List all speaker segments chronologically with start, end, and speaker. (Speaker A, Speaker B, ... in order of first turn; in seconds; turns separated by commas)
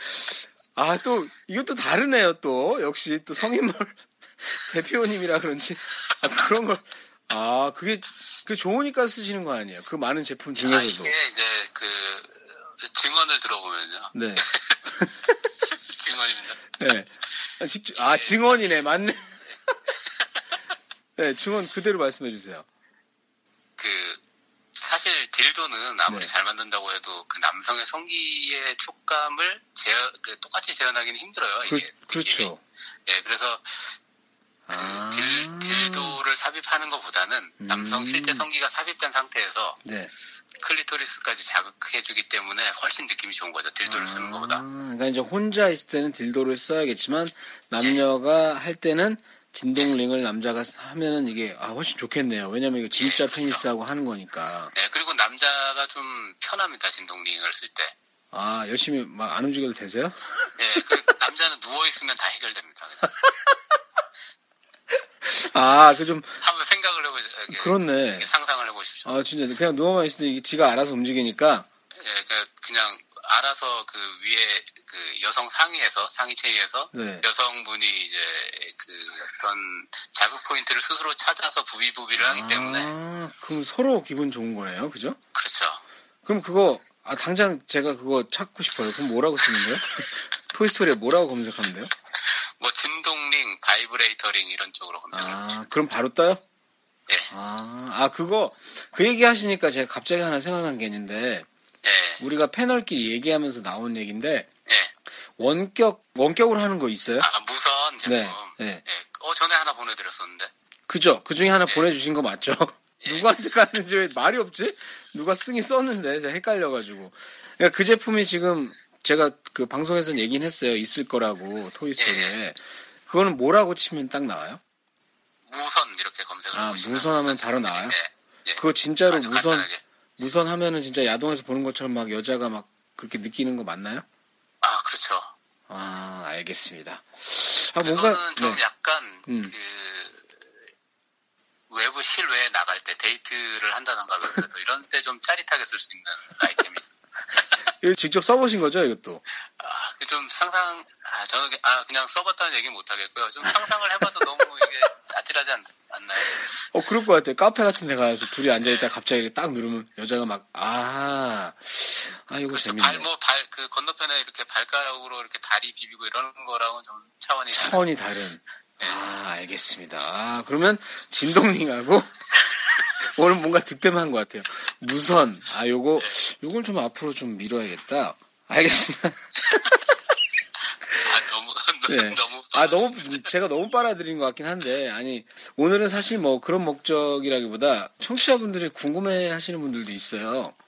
Speaker A: 0.8-11.1, Speaker B: 10.5-14.8, Speaker A: 14.1-15.3, Speaker B: 15.7-16.7, Speaker A: 16.8-19.8, Speaker B: 17.9-18.8, Speaker B: 19.4-20.5, Speaker A: 21.1-22.7, Speaker B: 23.8-24.2, Speaker B: 24.8-32.5, Speaker A: 26.1-26.3, Speaker A: 31.6-32.6, Speaker B: 33.0-34.0, Speaker A: 34.6-36.2, Speaker B: 34.7-39.8, Speaker A: 37.6-38.5, Speaker A: 39.8-40.1, Speaker B: 40.5-44.6, Speaker A: 43.8-54.7, Speaker B: 52.9-53.7, Speaker B: 54.7-57.9, Speaker A: 58.3-61.0, Speaker B: 60.5-63.2, Speaker A: 65.2-66.4, Speaker B: 66.4-69.2, Speaker A: 67.5-68.3, Speaker A: 69.0-71.7, Speaker B: 71.9-82.9, Speaker A: 76.9-77.2, Speaker A: 82.1-85.2, Speaker B: 85.3-85.8, Speaker A: 86.2-91.9, Speaker B: 92.2-95.6, Speaker A: 95.1-96.4, Speaker B: 97.1-97.3, Speaker A: 97.3-101.5, Speaker B: 101.8-102.2, Speaker A: 102.2-104.5, Speaker B: 104.7-104.9, Speaker A: 105.4-107.3, Speaker B: 107.2-110.5, Speaker A: 108.0-108.8, Speaker A: 110.9-124.6, Speaker B: 111.6-111.9, Speaker B: 113.0-113.3, Speaker B: 122.0-122.4, Speaker B: 125.5-129.8, Speaker A: 126.5-128.0, Speaker A: 128.6-134.0, Speaker B: 134.6-135.3, Speaker A: 135.7-138.6, Speaker B: 137.8-140.5, Speaker A: 139.2-139.5, Speaker B: 141.7-147.5, Speaker A: 147.8-149.2, Speaker B: 149.6-156.7, Speaker A: 156.2-163.1, Speaker B: 158.6-158.9, Speaker B: 162.5-167.9, Speaker A: 167.5-179.6, Speaker B: 179.5-179.8, Speaker B: 180.9-183.3, Speaker A: 181.9-190.6